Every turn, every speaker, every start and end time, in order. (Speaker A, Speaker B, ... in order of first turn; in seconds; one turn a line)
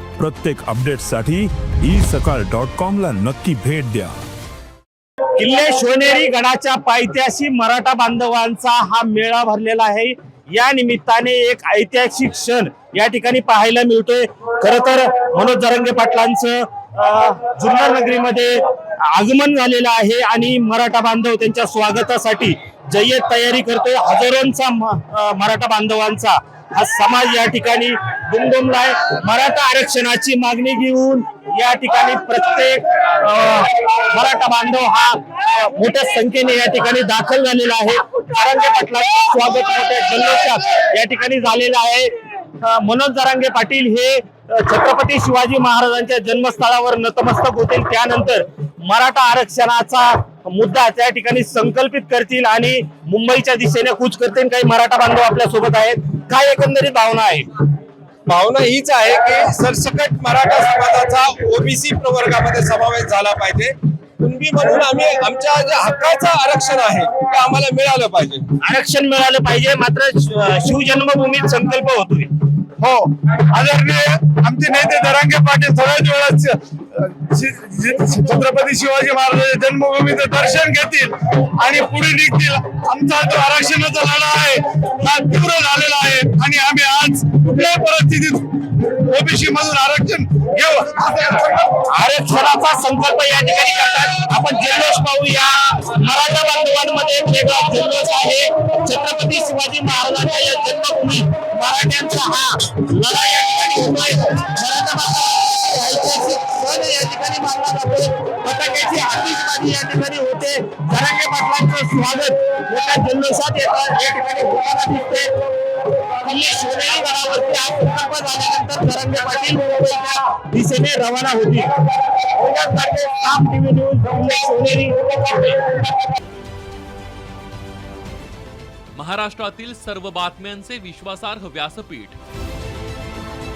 Speaker A: 0.2-4.1
Speaker B: 5.4-57.5
Speaker C: 58.3-68.5
Speaker B: 68.6-72.3
Speaker D: 72.8-91.7
Speaker B: 91.8-115.3
Speaker B: 116.0-125.8
Speaker E: 128.9-132.2